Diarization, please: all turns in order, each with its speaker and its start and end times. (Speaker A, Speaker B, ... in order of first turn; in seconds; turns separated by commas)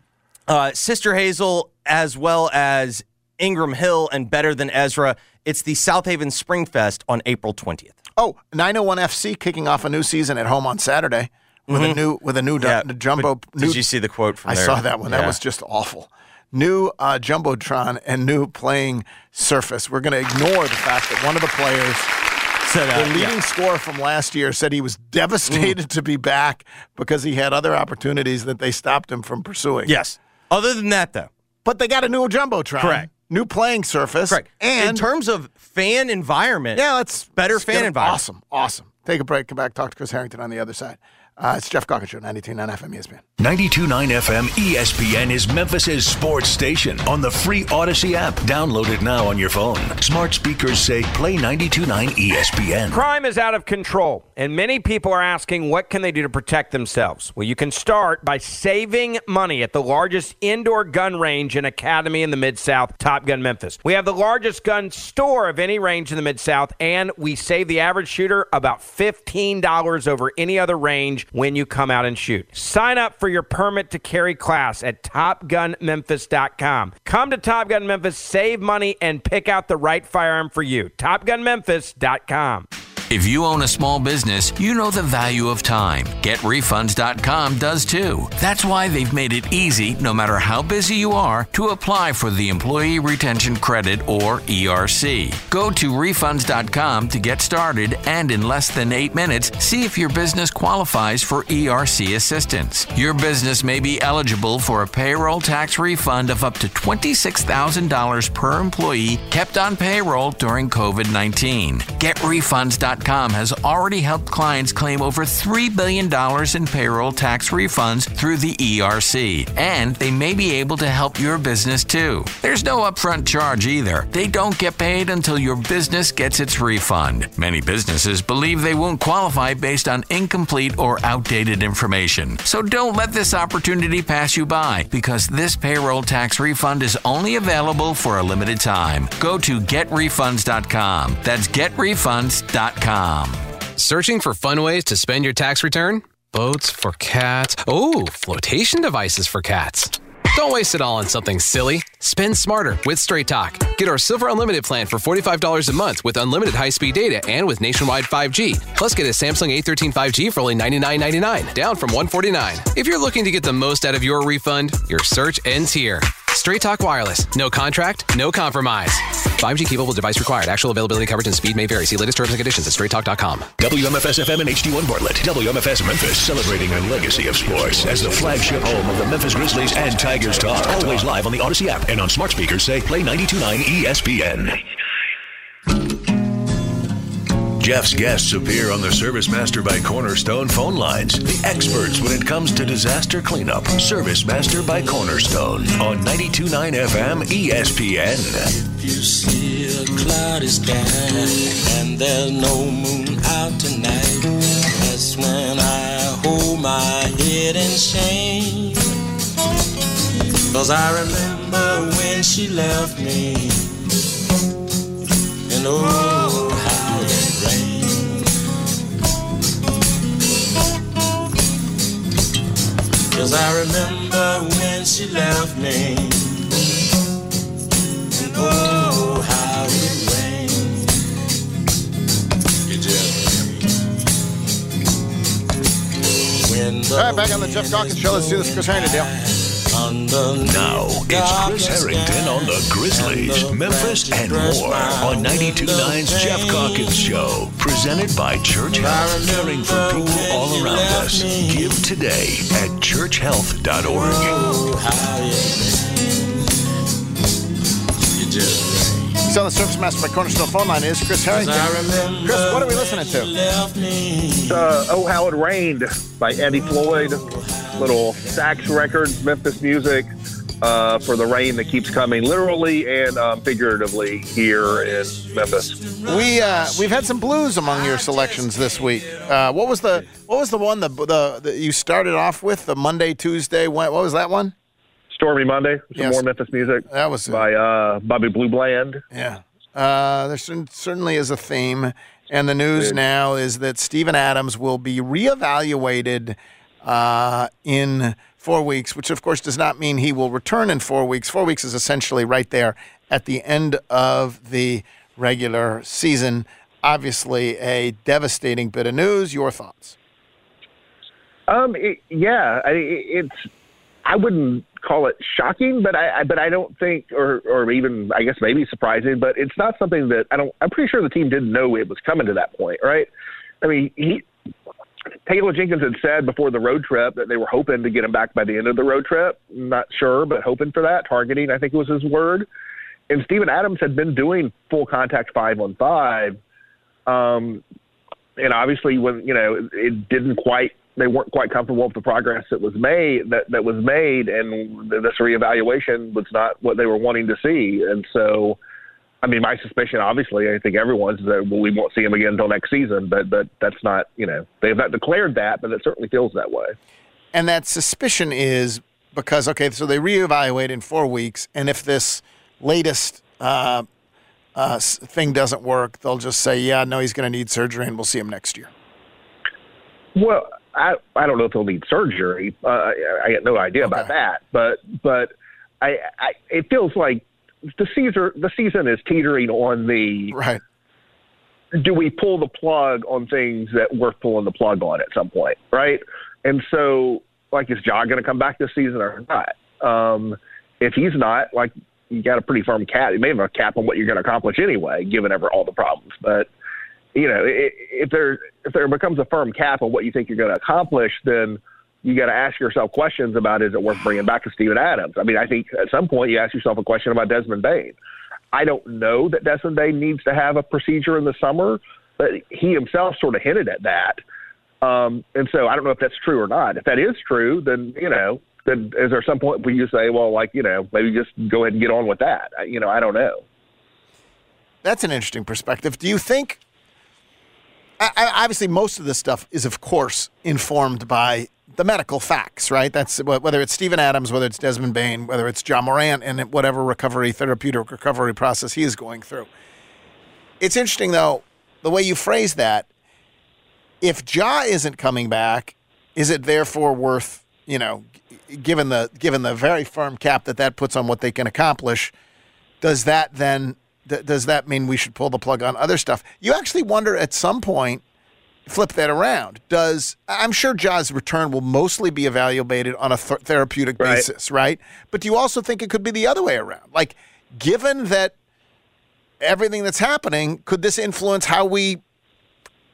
Speaker A: 0.5-8.0, Speaker B: 8.2-13.8, Speaker A: 11.7-12.0, Speaker A: 12.6-15.4, Speaker B: 14.5-22.1, Speaker A: 22.6-23.4, Speaker B: 22.9-30.0, Speaker A: 25.5-25.7, Speaker A: 29.9-31.3, Speaker B: 31.6-35.0, Speaker A: 32.8-33.1, Speaker A: 34.3-36.8, Speaker B: 36.7-43.2, Speaker A: 37.4-38.2, Speaker C: 43.4-53.0, Speaker D: 52.9-82.7, Speaker E: 83.1-143.4, Speaker F: 143.8-173.5, Speaker C: 173.6-184.6, Speaker C: 187.6-198.5, Speaker G: 198.5-208.9, Speaker G: 210.5-213.8, Speaker G: 215.5-218.3, Speaker G: 223.1-226.6, Speaker G: 228.1-230.9, Speaker G: 232.7-233.7, Speaker G: 236.4-247.3, Speaker B: 236.9-239.1, Speaker C: 240.4-254.4, Speaker G: 248.7-251.8, Speaker G: 253.9-256.4, Speaker G: 258.1-259.2, Speaker B: 259.2-261.7, Speaker G: 261.2-264.8, Speaker B: 262.2-263.3, Speaker H: 264.5-267.2, Speaker G: 266.6-268.4, Speaker H: 267.8-275.7, Speaker G: 274.6-277.1, Speaker B: 276.1-284.5, Speaker H: 285.1-289.0, Speaker B: 285.9-286.2, Speaker B: 286.8-287.4, Speaker B: 289.1-309.9, Speaker H: 311.5-313.5, Speaker H: 314.1-323.1, Speaker H: 323.6-324.2, Speaker H: 325.2-332.5, Speaker H: 333.1-336.4, Speaker H: 337.1-337.6, Speaker H: 338.4-348.6, Speaker H: 349.2-356.7, Speaker B: 357.3-363.9, Speaker B: 364.5-368.7, Speaker H: 370.1-377.2, Speaker B: 373.8-374.1, Speaker H: 377.8-380.4, Speaker B: 380.3-380.6, Speaker H: 381.8-396.5, Speaker H: 397.1-407.9, Speaker H: 408.5-414.2, Speaker H: 414.8-423.4, Speaker B: 424.8-426.6, Speaker B: 428.0-439.5, Speaker B: 440.6-442.9, Speaker B: 444.0-452.1, Speaker B: 452.8-458.0, Speaker B: 458.6-468.3, Speaker H: 464.0-464.2, Speaker B: 469.4-472.0